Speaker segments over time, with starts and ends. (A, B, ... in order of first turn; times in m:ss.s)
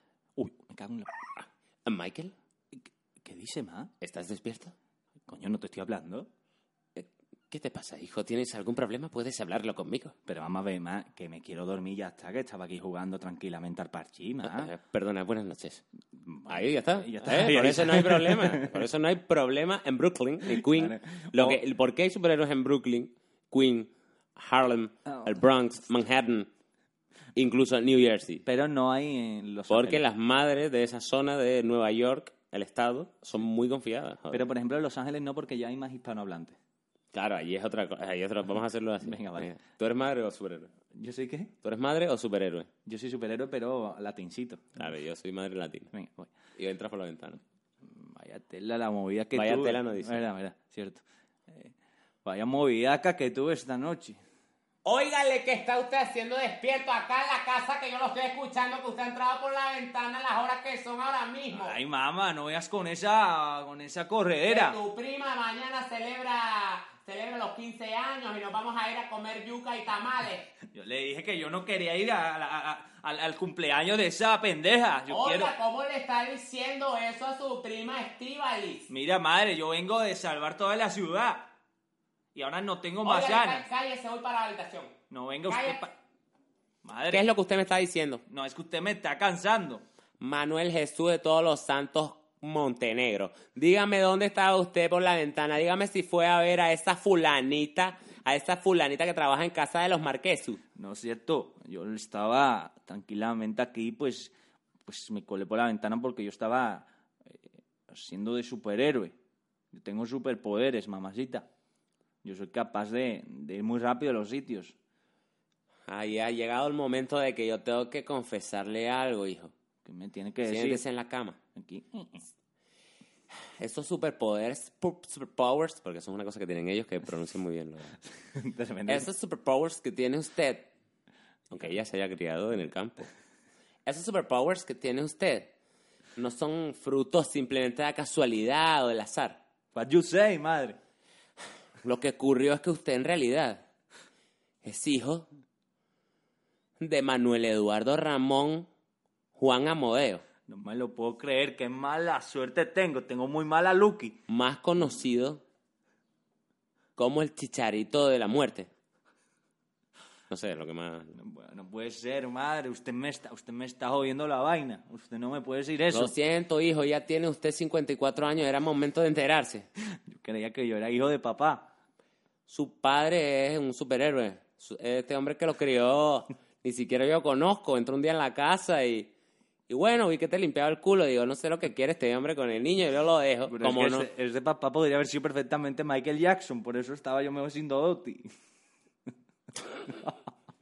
0:00.4-0:01.2 A
0:01.9-0:02.3 B
0:02.8-0:03.9 A
0:04.0-0:04.7 B
0:05.3-0:06.3 A
0:07.0-0:10.2 B
0:10.3-0:14.7 A
0:14.4-0:15.8 B
0:16.2-0:18.8 A
0:16.5-0:26.5 B
0:20.5-0:21.6 A
0:27.4-0:28.4 B
0:28.5-0:30.0 A
0:29.7-0:34.4 B
0:34.3-0:36.6 A
0:37.1-0:40.7 B
0:39.0-0:39.5 A
0:40.9-0:41.5 A
0:41.6-0:42.7 B
0:42.9-0:44.8 A
0:44.8-0:45.9 B
0:45.9-0:46.3 A
0:46.6-0:47.4 B
0:47.8-0:51.7 A
0:49.3-0:50.2 B
0:52.2-0:54.2 A
0:54.8-1:01.8 C
1:01.5-1:04.8 A
1:04.5-1:10.5 C
1:10.7-1:15.5 A
1:15.1-1:18.9 C
1:18.9-1:21.5 A
1:22.3-1:23.6 A
1:23.0-1:24.9 C
1:25.1-1:25.9 A
1:25.5-1:25.8 C
1:26.8-1:27.3 A
1:27.1-1:28.2 B
1:28.3-1:29.8 A
1:30.2-1:40.6 B
1:40.8-1:44.3 A
1:44.9-1:49.2 A
1:49.7-1:51.5 A
1:52.2-1:54.8 A
1:55.9-1:59.5 B
1:59.8-2:00.8 A
2:00.4-2:01.4 B
2:01.6-2:02.3 A
2:03.6-2:08.0 B
2:08.2-2:09.1 A
2:08.9-2:10.7 B
2:11.5-2:13.1 B
2:13.9-2:15.5 B
2:16.2-2:19.4 B
2:19.7-2:20.8 A
2:21.8-2:23.6 B
2:24.6-2:25.3 B
2:26.8-2:28.7 B
2:29.4-2:30.2 B
2:30.5-2:34.2 A
2:34.3-2:35.4 B
2:37.0-2:38.7 B
2:40.3-2:41.2 B
2:41.2-2:46.1 A
2:45.9-2:49.7 B
2:50.0-2:51.7 A
2:52.5-2:59.1 B
2:59.7-3:04.1 B
3:03.5-3:08.4 A
3:09.9-3:10.2 A